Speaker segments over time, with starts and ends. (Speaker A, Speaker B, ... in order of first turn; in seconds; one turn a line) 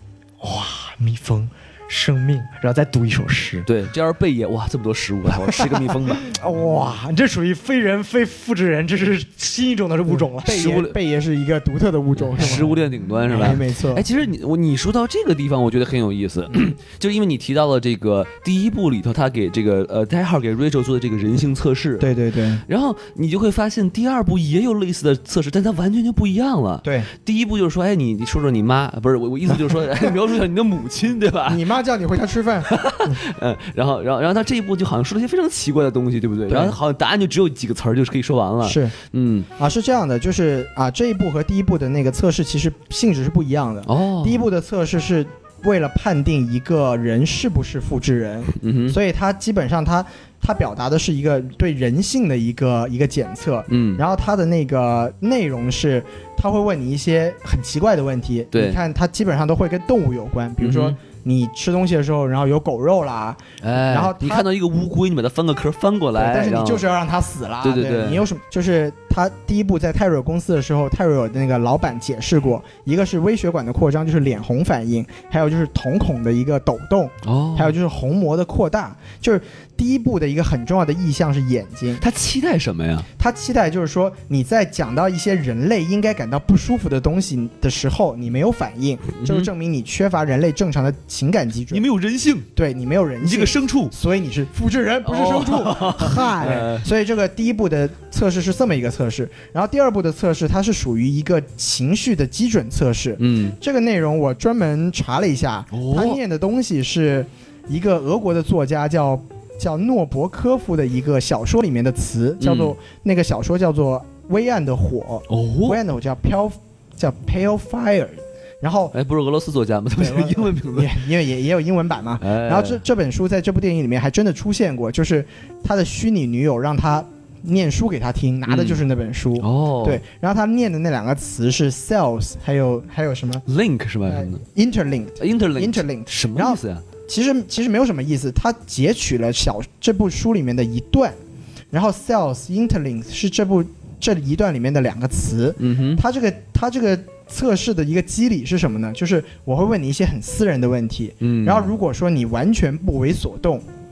Speaker A: 0.4-3.7
Speaker B: 3.6-6.3
Speaker A: 6.2-10.7
Speaker C: 10.1-12.7
Speaker B: 10.5-10.9
Speaker B: 12.2-22.1
Speaker A: 12.4-12.8
Speaker C: 13.3-14.1
Speaker C: 22.0-22.6
Speaker B: 22.7-31.6
Speaker C: 26.8-27.1
Speaker C: 31.5-32.7
Speaker B: 32.7-39.5
Speaker C: 36.5-36.8
Speaker C: 38.6-38.9
Speaker C: 39.6-64.5
Speaker B: 43.9-44.5
Speaker B: 48.6-49.0
Speaker B: 53.7-54.0
Speaker B: 58.5-58.8
Speaker B: 60.6-61.0
Speaker B: 63.6-66.8
Speaker C: 66.2-82.0
Speaker B: 67.6-68.2
Speaker B: 77.2-77.8
Speaker B: 82.0-83.1
Speaker C: 83.2-91.8
Speaker B: 89.2-89.5
Speaker B: 91.7-92.5
Speaker C: 92.6-118.9
Speaker B: 93.2-93.9
Speaker B: 95.1-96.9
Speaker A: 95.7-96.7
Speaker B: 103.2-103.6
Speaker B: 105.7-106.2
Speaker B: 112.4-112.7
Speaker B: 115.3-115.8
Speaker B: 118.9-121.0
Speaker C: 120.0-133.4
Speaker B: 122.2-122.8
Speaker B: 128.5-128.8
Speaker B: 129.4-130.0
Speaker B: 133.5-134.4
Speaker C: 134.1-141.2
Speaker B: 135.2-136.8
Speaker C: 141.7-153.6
Speaker B: 145.6-146.0
Speaker B: 151.2-151.7